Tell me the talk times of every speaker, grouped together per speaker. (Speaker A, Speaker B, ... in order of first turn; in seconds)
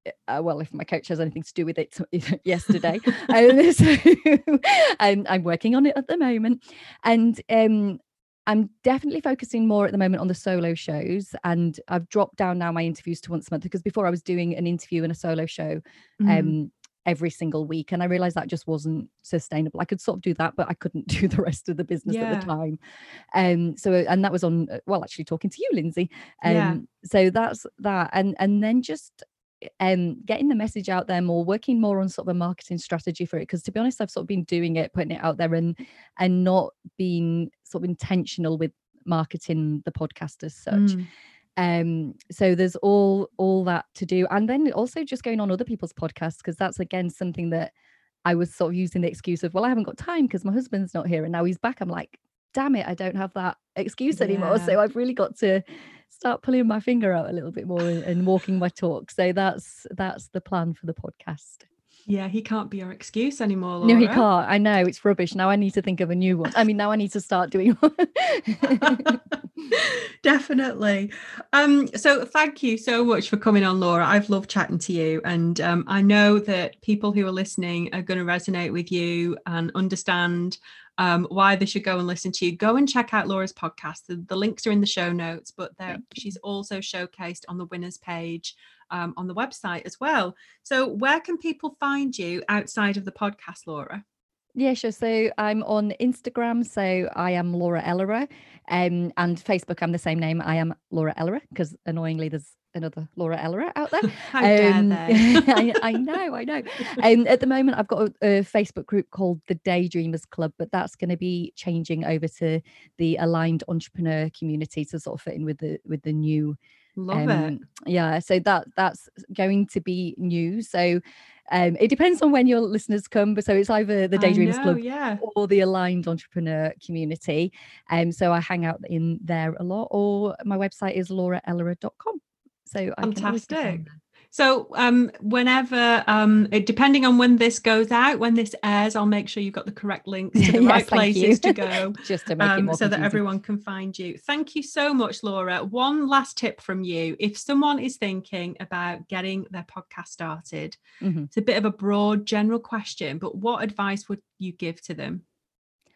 Speaker A: 0.3-22.8, 23.3-29.2, 29.8-41.0, 41.6-47.7, 48.2-61.6, 63.8-69.2, 85.9-86.2, 94.6-116.6, 117.1-121.0, 121.5-133.9, 140.3-143.2, 151.0-151.3
Speaker B: 16.2-16.6, 22.1-22.5, 26.4-26.8, 40.7-41.1, 54.1-54.8, 62.1-64.3, 68.8-69.2, 69.7-94.0, 104.1-105.9, 117.0-117.5, 124.2-125.2, 133.0-150.8, 151.3-155.2